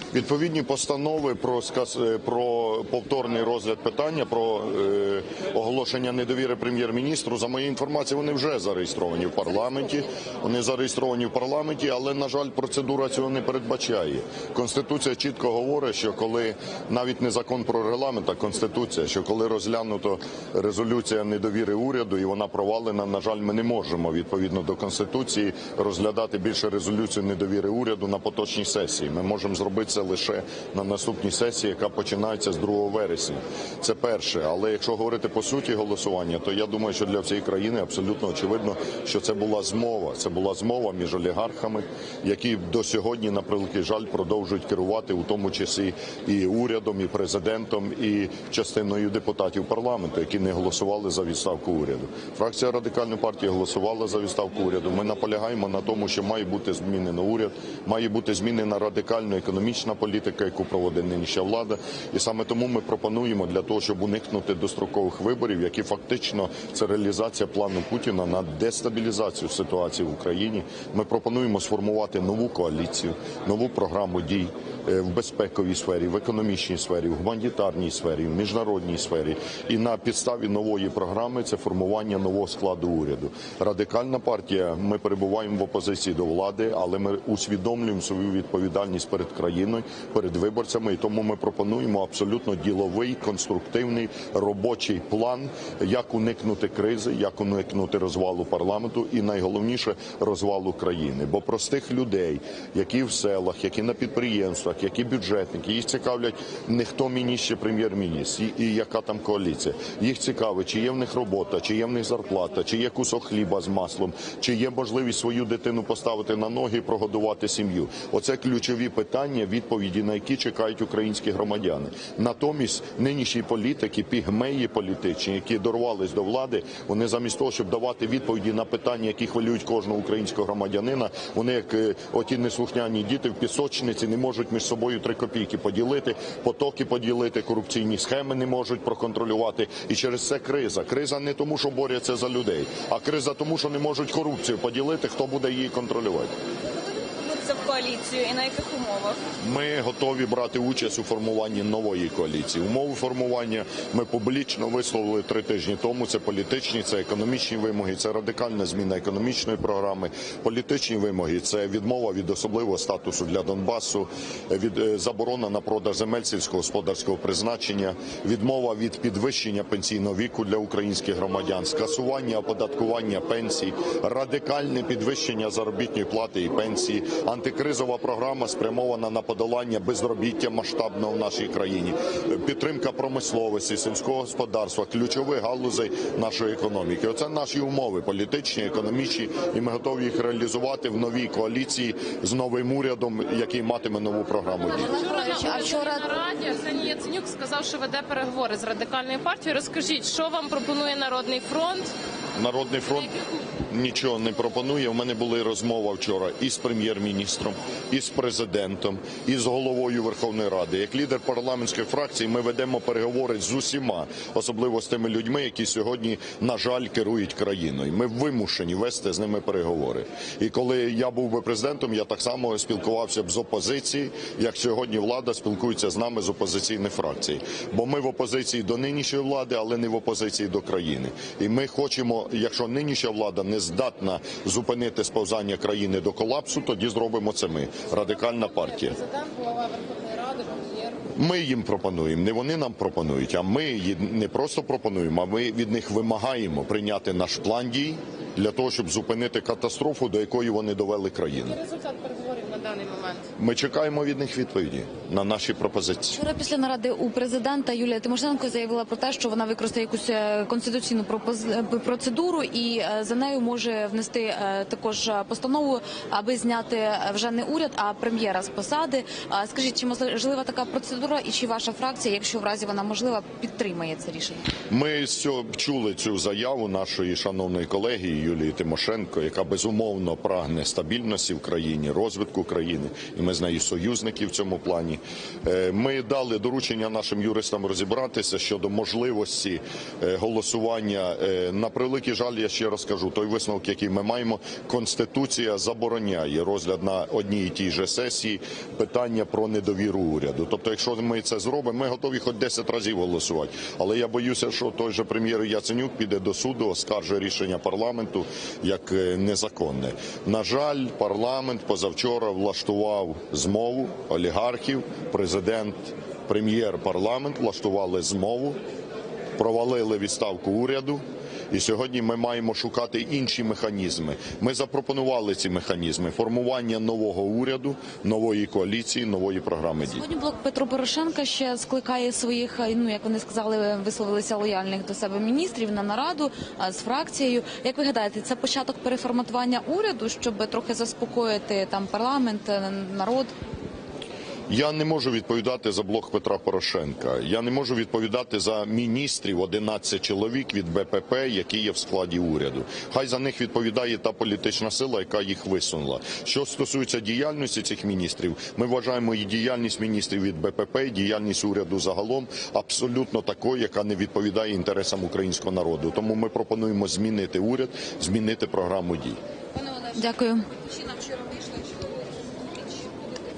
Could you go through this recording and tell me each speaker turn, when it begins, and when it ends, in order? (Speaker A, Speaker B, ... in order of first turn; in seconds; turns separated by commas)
Speaker A: 0.1-146.3, Speaker B: 147.2-149.2, Speaker A: 149.4-194.9, Speaker C: 194.7-196.0, Speaker D: 194.8-201.9, Speaker A: 202.3-239.0, Speaker D: 238.3-241.0, Speaker A: 241.2-251.6, Speaker D: 251.5-253.2, Speaker A: 253.4-256.2, Speaker C: 256.1-274.5, Speaker A: 274.7-318.6, Speaker A: 319.4-330.1, Speaker C: 330.0-343.3, Speaker A: 344.5-369.2, Speaker C: 369.6-371.4